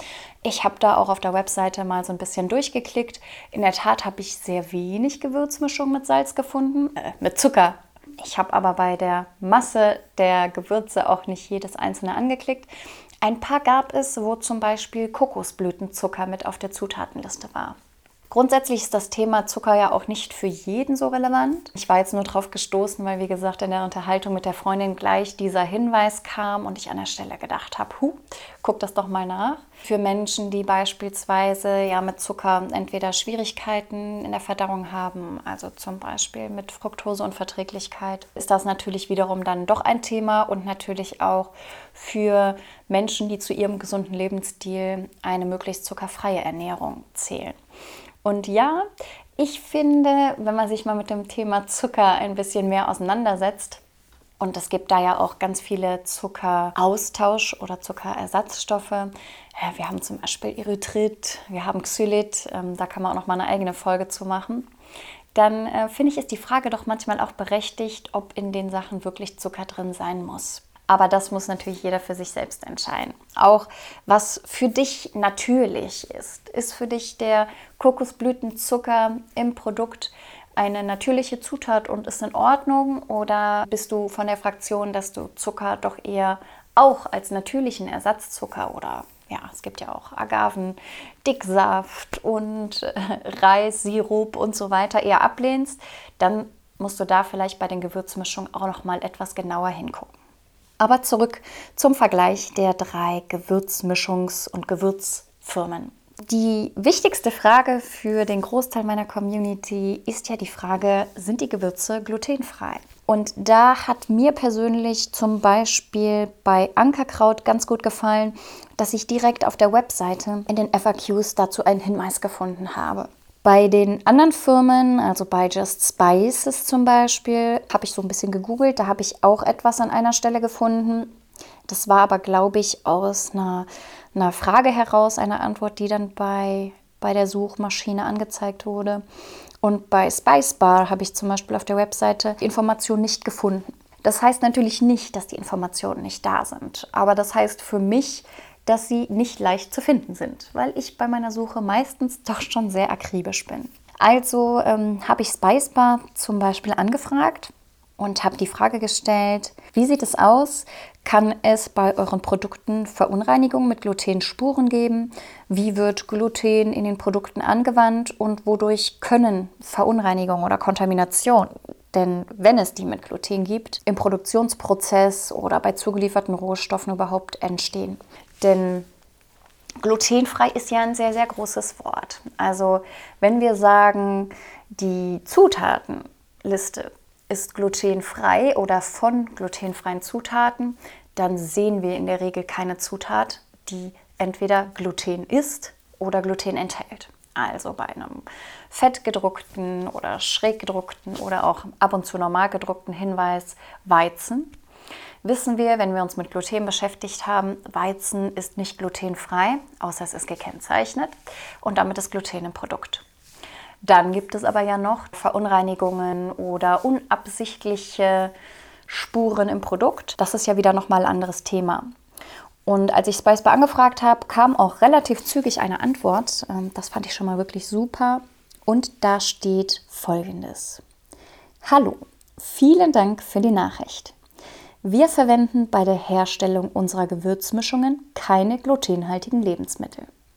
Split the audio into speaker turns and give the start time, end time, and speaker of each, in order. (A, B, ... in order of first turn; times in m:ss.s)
0:00.4-0:17.8 A
0:18.3-0:47.5 A
0:48.2-0:48.9 A
0:49.4-0:53.8 A
0:54.4-1:04.7 A
1:05.3-1:40.1 A
1:40.8-2:11.1 A
2:11.7-2:19.0 A
2:19.6-2:58.9 A
2:59.8-3:24.5 A
3:25.2-3:33.0 A
3:33.8-3:38.3 A
3:38.9-3:41.9 A
3:42.7-3:50.8 A
3:51.6-3:54.1 A
3:54.8-4:00.1 A